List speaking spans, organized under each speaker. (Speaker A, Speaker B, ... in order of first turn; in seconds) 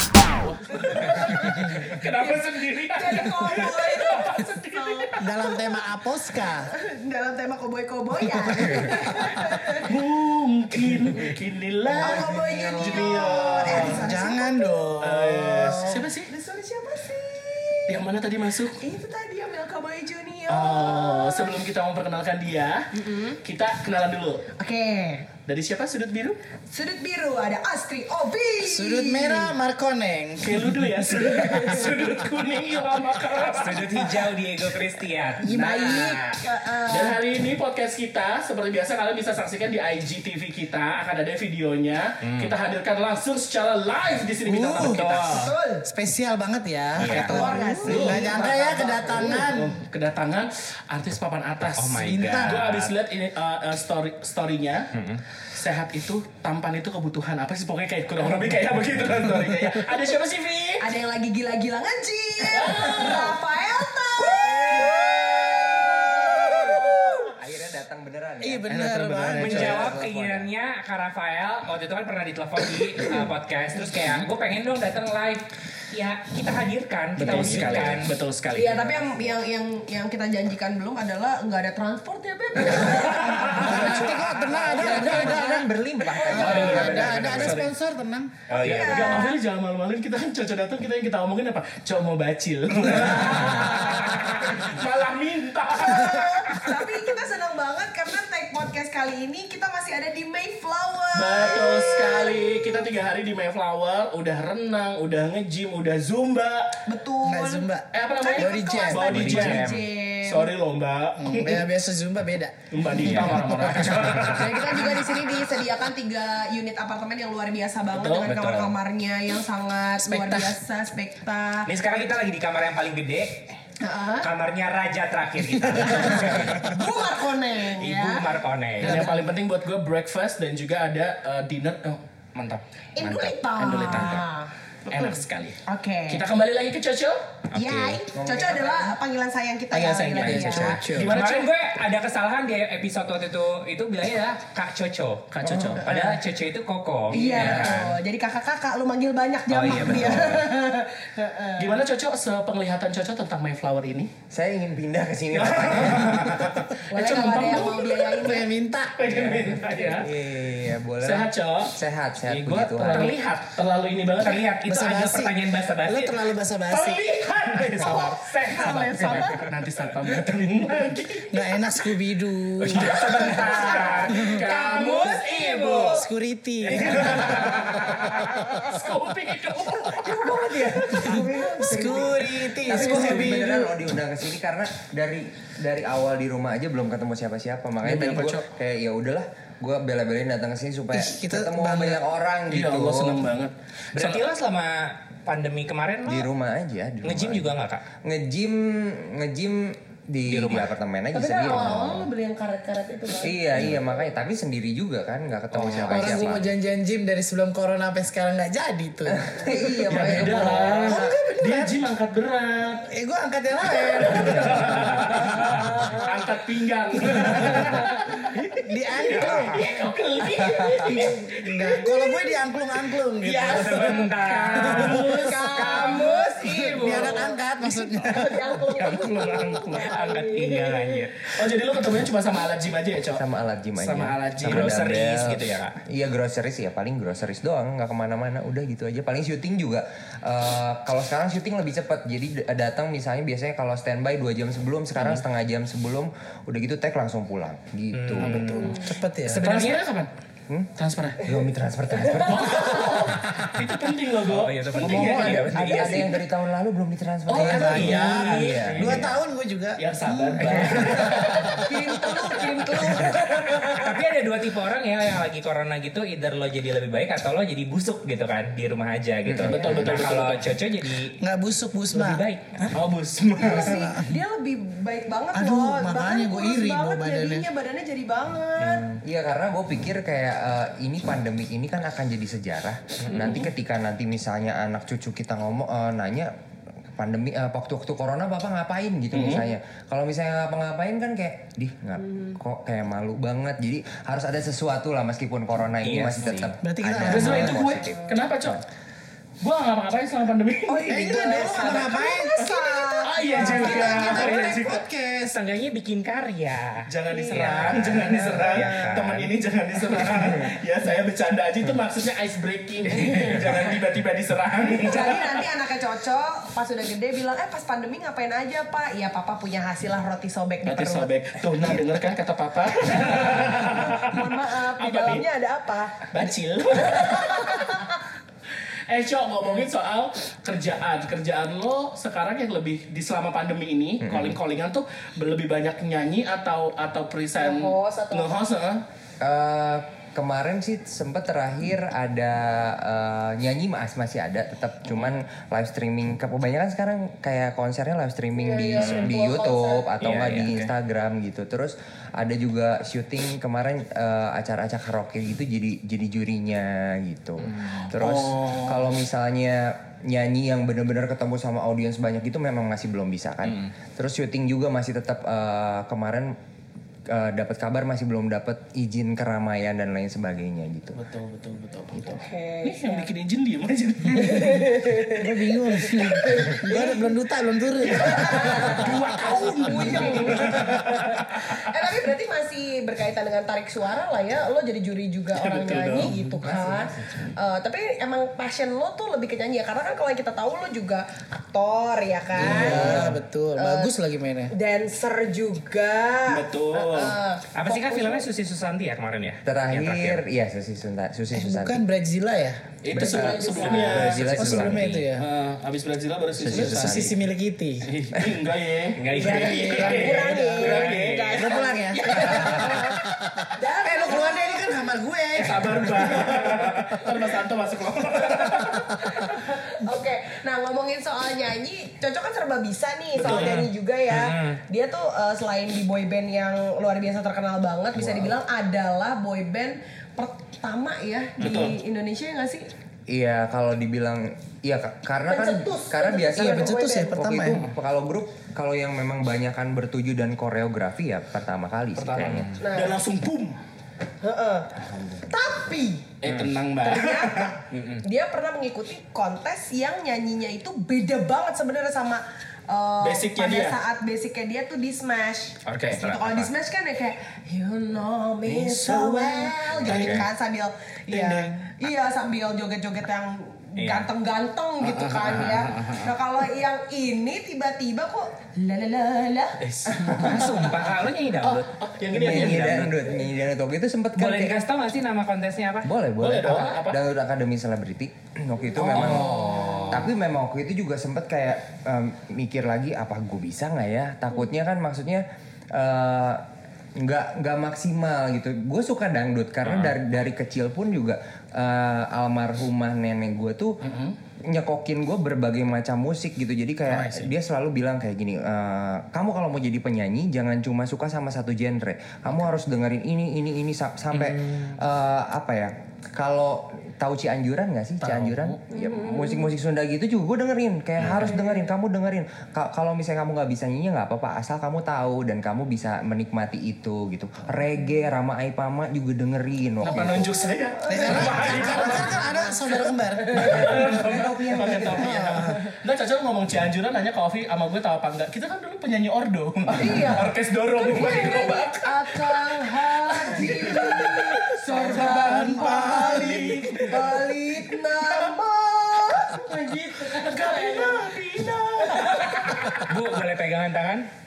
Speaker A: 0.3-5.1, 9.3-14.0, 15.0-16.3, 17.9-18.8, 20.5-22.9, 23.4-24.5, 25.4-26.4, 30.4-34.1, 36.9-45.5, 47.3-60.9, 62.5-63.4, 68.7-69.9, 77.2-79.3, 83.3-85.2, 86.3-87.7, 88.5-96.8, 101.1-106.8, 107.9-111.7, 112.7-115.2, 117.9-118.3, 128.8-132.0, 133.0-134.3, 134.9-137.2, 139.7-141.5, 145.3-146.1, 147.1-147.8, 151.6-154.1, 155.3-158.1, 158.9-160.1, 161.0-164.4, 166.7-168.2, 169.1-171.4, 172.7-176.0, 176.7-180.3, 187.8-188.5, 192.5-194.2, 209.9-212.9, 213.8-221.9, 223.2-226.2, 226.7-227.2, 227.9-230.1, 231.3-233.2, 233.8-234.8, 249.2-250.1, 250.8-251.2, 252.2-255.9, 257.3-259.1, 259.8-261.6, 269.4-270.5, 272.7-273.9, 289.1-289.5, 297.0-298.6, 299.4-304.8, 306.9-315.4, 320.6-325.2, 326.1-327.7, 328.5-338.8, 357.9-358.9, 370.9-374.8, 377.8-381.5, 385.6-386.1, 392.5-393.1, 396.3-397.1, 402.8-407.0, 407.8-411.3, 412.1-412.8, 415.3-419.3, 423.1-423.7, 431.4-431.7, 442.6-443.6, 446.2-447.6, 453.0-453.8, 455.7-456.0, 458.4-460.3, 461.1-461.6, 464.8-466.1, 469.6-470.6, 471.4-472.8, 476.2-477.0, 479.3-479.6, 493.8-494.1, 496.9-497.3, 508.0-508.6, 519.8-538.4, 540.0-542.9
Speaker B: 0.7-2.4, 2.9-9.9, 12.0-14.7, 16.3-18.0, 18.8-21.5, 22.9-23.4, 24.6-25.3, 26.7-29.5, 31.1-31.9, 35.4-37.2, 45.2-45.8, 47.1-49.3, 60.8-67.3, 78.5-83.9, 85.0-85.2, 86.2-87.2, 88.5-89.4, 95.8-102.9, 106.8-110.5, 114.3-121.7, 123.8-124.3, 126.5-129.2, 132.9-134.5, 135.7-136.2, 137.5-141.2, 147.1-151.8, 156.9-158.5, 159.7-160.0, 167.8-169.5, 173.4-176.0, 180.3-181.6, 183.1-183.6, 201.1-203.8, 209.4-210.8, 215.7-216.1, 217.7-218.0, 220.3-222.4, 223.8-227.4, 228.0-231.3, 248.6-249.0, 251.9-253.2, 261.3-263.9, 273.4-278.9, 297.7-298.2, 300.7-304.3, 307.1-307.8, 314.8-321.1, 322.9-328.0, 337.4-338.3, 348.3-349.9, 372.1-373.1, 374.1-377.1, 378.0-393.9, 394.5-398.3, 402.9-404.2, 409.1-413.0, 413.5-414.9, 419.0-432.7, 435.3-437.4, 442.6-443.0, 444.2-444.7, 445.2-446.1, 446.8-469.6, 478.7-480.0, 508.7-509.5, 511.3-511.6, 520.9-521.4, 523.2-523.8, 529.7-541.2, 541.8-542.6
Speaker C: 5.2-6.7, 13.6-16.0, 28.6-30.9, 31.5-31.9, 44.5-45.0, 45.8-49.8, 52.0-52.7, 59.4-59.7, 64.4-65.2, 68.4-69.7, 83.4-88.4, 107.2-109.5, 111.2-113.9, 120.0-120.5, 125.6-127.3, 140.2-141.1, 158.1-159.1, 164.7-167.1, 171.3-173.3, 174.1-174.4, 175.9-177.4, 181.1-183.8, 190.9-192.0, 205.8-209.7, 210.8-211.7, 212.9-215.7, 218.5-219.7, 220.8-223.8, 224.8-225.0, 226.6-228.3, 248.2-249.4, 254.8-255.9, 257.3-263.2, 271.2-272.2, 273.5-274.1, 275.3-277.4, 296.6-297.8, 300.8-305.4, 375.0-379.9, 392.4-394.5, 401.3-402.8, 404.3-405.3, 406.5-407.9, 409.2-410.4, 411.3-416.9, 418.8-419.1, 436.4-437.6, 520.9-523.7, 525.0-525.6, 534.7-537.1
Speaker D: 12.5-13.1, 65.7-68.7, 69.5-70.5, 84.7-87.3, 138.1-138.9, 145.4-145.9, 147.4-147.7, 149.7-150.4, 154.3-156.5, 160.0-163.1, 179.9-193.2, 196.0-202.1, 203.2-206.5, 209.1-210.9, 233.1-248.7, 250.5-253.0, 255.2-259.0, 269.2-269.9, 279.0-286.3, 286.9-298.6, 334.0-334.4, 339.2-366.4, 367.1-371.0, 386.1-387.3, 392.4-393.0, 399.4-401.8, 402.9-405.1, 406.4-407.2, 433.1-442.5, 444.8-445.2, 472.1-474.6, 475.8-486.4, 486.9-493.8, 494.4-520.3, 523.6-525.3
Speaker E: 33.3-36.3, 42.2-42.5, 44.8-45.5, 47.0-47.6, 51.8-52.9, 54.9-55.2, 69.4-78.1, 86.3-87.6, 88.5-89.2, 93.9-94.3, 109.0-109.8, 113.0-114.5, 118.2-118.7, 121.7-123.6, 124.2-126.8, 127.8-129.1, 132.3-132.6, 137.5-138.0, 140.2-147.9, 149.5-150.4, 164.2-166.3, 167.2-169.5, 172.6-176.0, 177.0-177.8, 193.9-196.2, 197.0-197.8, 200.3-200.7, 205.5-206.3, 215.1-215.6, 223.4-227.2, 229.1-231.3, 234.4-235.8, 247.9-249.8, 254.3-256.2, 257.7-259.1, 260.4-261.0, 262.3-263.1, 263.6-271.1, 271.9-272.8, 278.6-279.0, 283.0-283.3, 295.8-296.5, 305.3-309.3, 348.8-349.1, 350.0-350.7, 357.5-357.8, 385.4-386.1, 397.5-400.2, 404.3-405.0, 409.0-411.4, 423.2-424.6, 431.4-431.7, 442.0-442.6, 447.7-448.0, 455.6-456.5, 459.8-460.2, 463.8-464.1, 465.2-465.6, 469.9-472.9, 474.2-475.9, 478.9-479.7, 489.6-490.0, 504.1-504.7, 511.0-511.3, 542.2-544.1